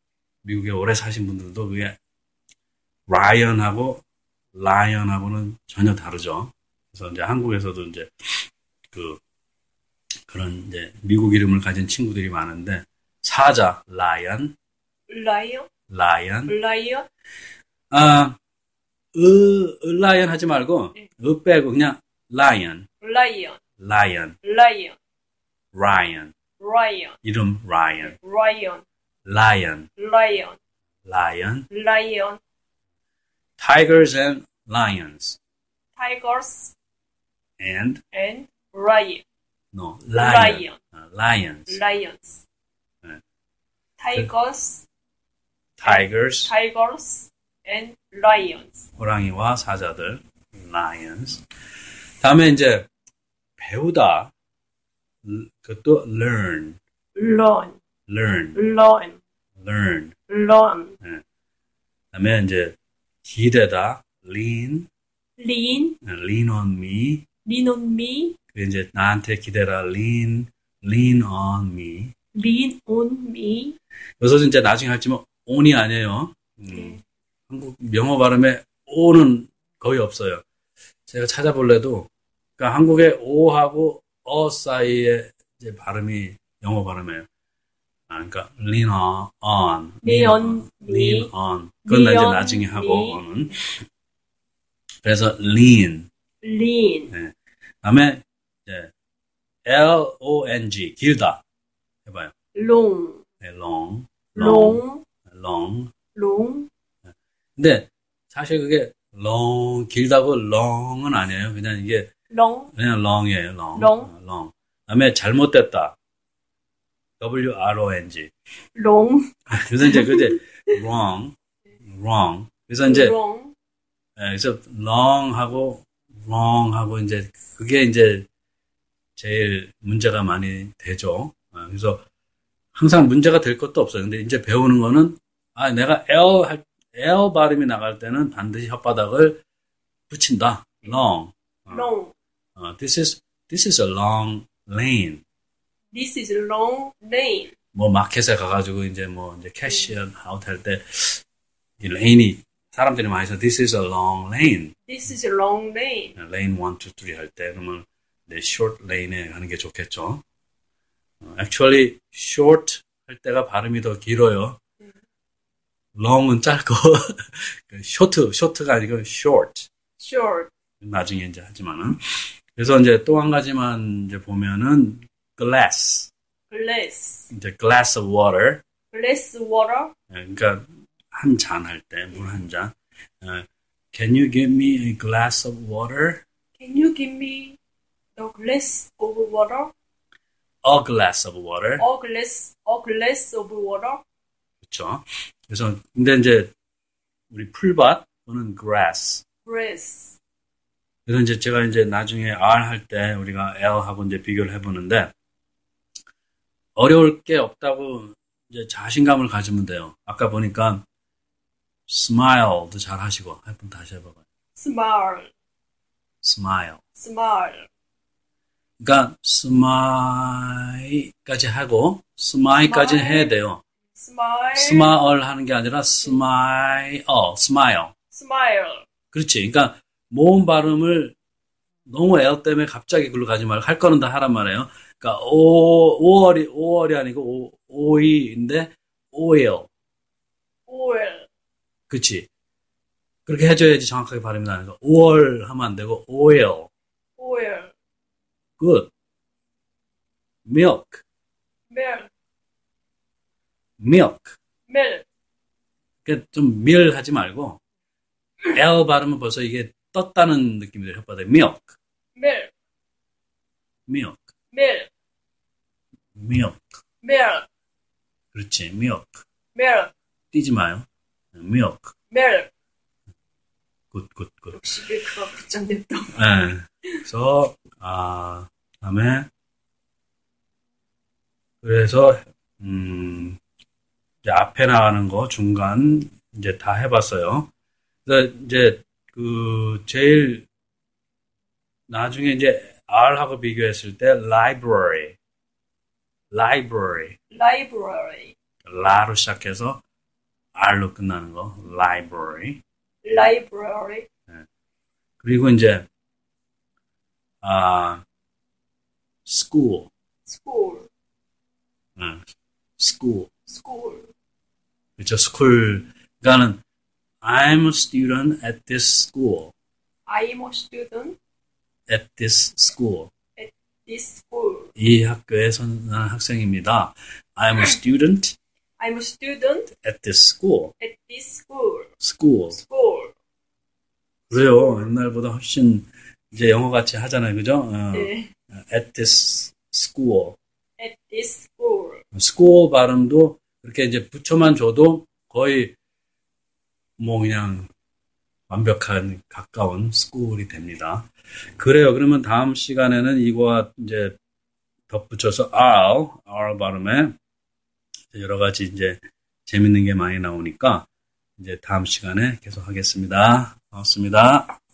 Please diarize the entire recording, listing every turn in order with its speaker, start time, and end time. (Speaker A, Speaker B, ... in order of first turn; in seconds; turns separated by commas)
Speaker A: 0.5-2.0, Speaker A: 3.1-4.0, Speaker A: 4.6-9.2, Speaker A: 10.3-14.5, Speaker B: 15.1-15.7, Speaker A: 15.9-16.6, Speaker B: 16.5-17.1, Speaker A: 17.9-18.4, Speaker A: 19.1-22.9, Speaker B: 23.0-23.6, Speaker A: 23.8-24.4, Speaker B: 24.4-25.0, Speaker A: 25.7-26.3, Speaker B: 26.6-27.2, Speaker A: 27.2-28.2, Speaker B: 28.0-28.8, Speaker A: 29.3-29.9, Speaker B: 30.0-30.6, Speaker A: 31.1-31.7, Speaker B: 31.7-32.4, Speaker A: 33.6-35.4, Speaker B: 36.0-36.7, Speaker A: 37.6-38.0, Speaker B: 38.1-39.2, Speaker A: 39.7-41.8, Speaker B: 40.2-40.8, Speaker B: 41.7-42.4, Speaker B: 44.0-44.9, Speaker A: 45.8-46.5, Speaker B: 45.9-48.9, Speaker A: 49.0-51.4, Speaker A: 52.2-52.9, Speaker A: 53.6-54.3, Speaker A: 55.2-56.8, Speaker B: 57.2-57.8, Speaker A: 58.1-58.6, Speaker B: 58.5-59.2, Speaker A: 59.6-60.1, Speaker B: 60.3-61.0, Speaker A: 62.1-64.9, Speaker B: 65.4-66.0, Speaker A: 66.0-67.2, Speaker B: 67.5-68.4, Speaker A: 68.5-72.1, Speaker B: 72.3-73.8, Speaker A: 74.2-77.0, Speaker B: 76.7-77.0, Speaker A: 77.5-80.4, Speaker A: 81.1-87.3, Speaker A: 88.1-93.7, Speaker B: 90.0-91.3, Speaker B: 91.9-93.2, Speaker A: 95.0-96.1, Speaker B: 96.4-97.1, Speaker A: 97.1-98.9, Speaker A: 99.7-101.4, Speaker A: 102.0-102.3, Speaker B: 102.5-103.2, Speaker A: 103.4-105.9, Speaker B: 104.4-105.0, Speaker B: 106.1-106.7, Speaker A: 107.6-112.1, Speaker B: 112.3-112.7, Speaker A: 112.7-116.0, Speaker B: 113.8-114.1, Speaker A: 117.2-118.3, Speaker B: 118.8-119.3, Speaker A: 119.5-121.3, Speaker B: 119.8-120.3, Speaker A: 121.9-123.2, Speaker B: 122.8-123.5, Speaker A: 124.2-128.3, Speaker A: 129.2-132.0, Speaker A: 132.8-139.4, Speaker A: 140.1-141.9, Speaker B: 141.7-142.1, Speaker A: 142.6-145.2, Speaker B: 145.9-147.5, Speaker A: 147.8-151.2, Speaker A: 151.8-154.7, Speaker B: 154.9-156.2, Speaker A: 156.2-160.2, Speaker A: 161.2-164.6, Speaker A: 166.0-169.7, Speaker B: 170.0-170.5, Speaker A: 170.8-172.0, Speaker A: 172.6-176.1, Speaker B: 176.5-177.3, Speaker A: 177.3-178.6, Speaker B: 178.9-179.9, Speaker A: 180.1-186.2, Speaker B: 186.6-187.6, Speaker B: 188.2-189.7, Speaker A: 190.6-191.9, Speaker B: 191.8-194.0, Speaker A: 194.6-196.5, Speaker A: 197.3-199.2, Speaker B: 199.4-200.2, Speaker A: 201.1-205.1, Speaker A: 206.8-210.8, Speaker A: 211.9-214.2, Speaker B: 214.6-215.3, Speaker A: 216.2-216.8, Speaker B: 216.9-217.7, Speaker A: 218.8-223.6, Speaker B: 222.6-223.3, Speaker B: 223.9-224.9, Speaker A: 224.6-227.9, Speaker B: 228.1-228.9, Speaker A: 229.1-231.2, Speaker A: 231.9-239.7, Speaker B: 240.7-241.3, Speaker A: 241.9-242.3, Speaker A: 243.3-246.7, Speaker B: 247.2-247.7, Speaker A: 248.6-248.9, Speaker A: 250.5-251.0, Speaker B: 251.7-252.1, Speaker A: 253.8-254.4, Speaker B: 254.7-255.1, Speaker A: 256.1-257.6, Speaker A: 258.5-261.8, Speaker B: 262.2-262.5, Speaker A: 263.9-264.3, Speaker B: 264.5-264.9, Speaker A: 266.2-266.6, Speaker B: 267.0-267.5, Speaker A: 268.3-269.2, Speaker B: 269.5-269.9, Speaker A: 270.3-271.9, Speaker B: 272.1-272.5, Speaker A: 273.9-274.6, Speaker B: 274.5-276.2, Speaker A: 276.1-279.3, Speaker A: 281.6-283.4, Speaker A: 284.2-287.5, Speaker A: 288.1-290.5, Speaker A: 291.9-295.2, Speaker A: 296.3-297.2, Speaker B: 297.3-298.4, Speaker A: 298.6-299.8, Speaker A: 300.6-302.6, Speaker B: 303.1-304.1, Speaker A: 305.2-305.9, Speaker A: 307.4-308.0, Speaker A: 309.3-309.9, Speaker B: 310.3-310.9, Speaker A: 312.0-312.3, Speaker A: 312.8-313.3, Speaker B: 313.5-314.1, Speaker A: 315.0-316.6, Speaker A: 317.2-319.5, Speaker B: 320.1-321.2, Speaker A: 321.9-323.1, Speaker B: 323.4-324.7, Speaker A: 324.8-328.4, Speaker B: 328.8-329.7, Speaker A: 329.8-330.7, Speaker B: 330.8-331.9, Speaker A: 332.0-332.6, Speaker B: 332.5-333.1, Speaker A: 334.3-340.4, Speaker B: 334.3-334.9, Speaker B: 337.9-338.3, Speaker B: 340.8-342.0, Speaker A: 342.1-345.7, Speaker A: 347.0-347.7, Speaker A: 348.5-351.1, Speaker A: 351.6-354.1, Speaker A: 354.9-357.1, Speaker A: 358.1-360.9, Speaker A: 361.4-364.5